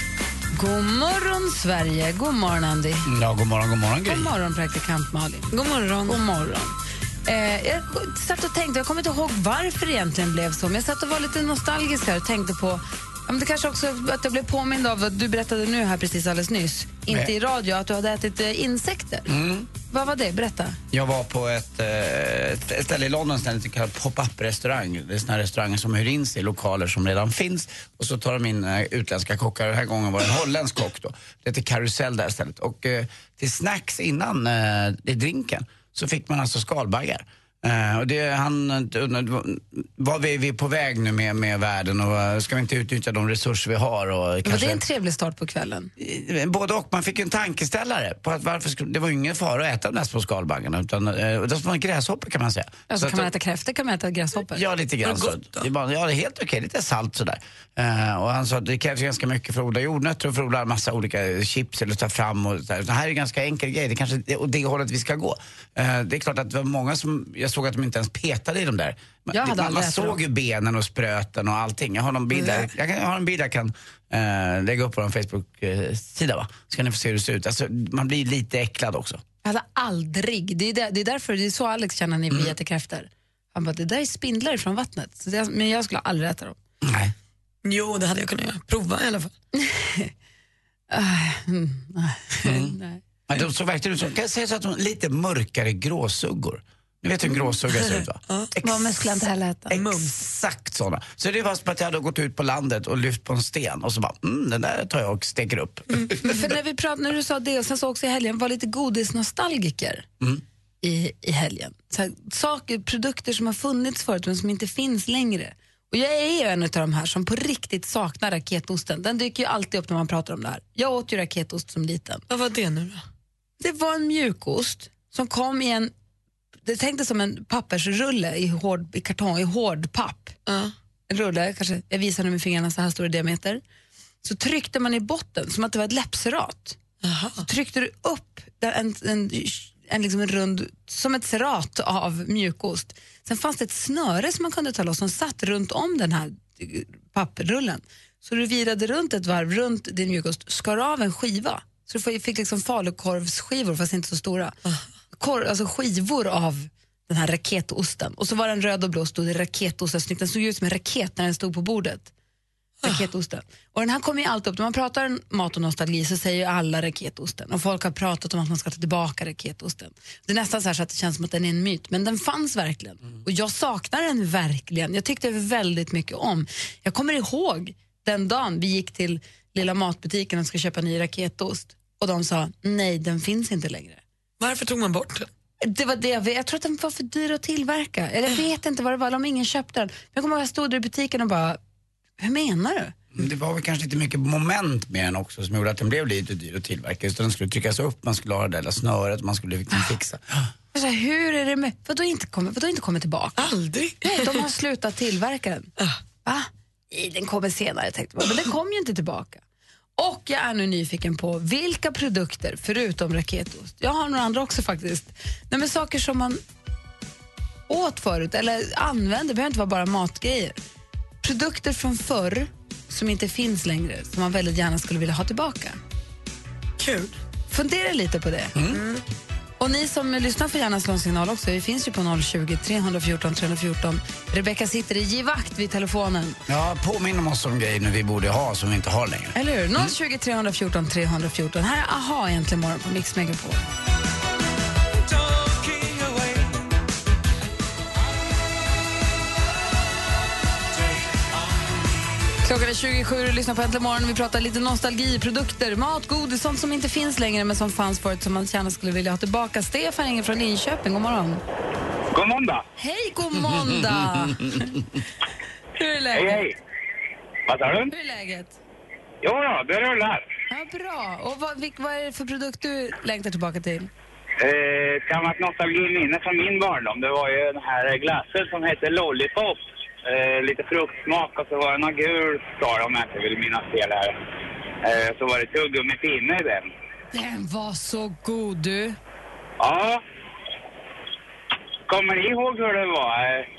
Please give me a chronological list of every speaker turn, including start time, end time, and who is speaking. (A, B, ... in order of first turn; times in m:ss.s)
0:00.5-0:03.1 A
0:03.0-0:04.3 B
0:04.0-0:19.3 A
0:05.5-0:06.2 C
0:19.3-0:19.7 B
0:19.8-0:20.8 A
0:20.9-0:44.8 B
0:44.4-0:45.9 A
0:46.0-0:53.3 B
0:52.9-0:54.6 A
0:54.5-1:19.2 B
0:55.0-0:55.7 C
1:09.3-1:10.2 A
1:12.4-1:12.6 C
1:19.4-1:26.6 A
1:26.8-1:27.1 B
1:27.6-1:29.3 C
1:29.5-1:30.1 A
1:30.9-1:33.0 A
1:32.4-1:32.8 B
1:33.3-1:46.5 B
1:37.8-1:38.5 C
1:38.6-1:39.8 A
1:39.7-1:40.1 C
1:46.2-1:50.1 A
1:50.8-2:02.2 A
2:02.3-2:03.0 C
2:03.6-2:05.9 A
2:06.6-2:10.4 A
2:10.5-2:10.7 C
2:11.1-2:13.6 A
2:14.2-2:16.8 A
2:17.0-2:17.4 C
2:17.4-2:34.6 A
2:35.2-2:42.1 A
2:42.8-3:04.0 A
3:04.4-3:05.3 C
3:05.6-3:11.6 A
3:12.2-3:12.9 A
3:13.1-3:20.5 B
3:20.7-3:25.7 A
3:23.4-3:24.4 C
3:26.2-3:29.4 A
3:30.0-3:36.4 A
3:37.7-3:40.6 A
3:41.2-3:45.8 A
3:46.8-3:47.2 C
3:47.5-3:48.5 A
3:48.5-3:48.8 B
3:48.7-3:49.0 C
3:49.6-3:56.4 A
3:56.5-3:59.9 B
3:59.3-4:03.6 A
4:12.4-4:21.4 A
4:22.1-4:22.6 D
4:22.8-4:24.8 A
4:23.5-4:24.6 B
4:25.8-4:26.4 A
4:26.1-4:26.6 D
4:27.5-4:27.9 D
4:27.9-4:28.6 A
4:29.2-4:30.2 D
4:30.5-4:33.9 A
4:34.4-4:44.1 D
4:44.8-4:46.7 D
4:47.1-4:49.0 A
4:49.6-4:50.0 D
4:51.9-4:53.5 D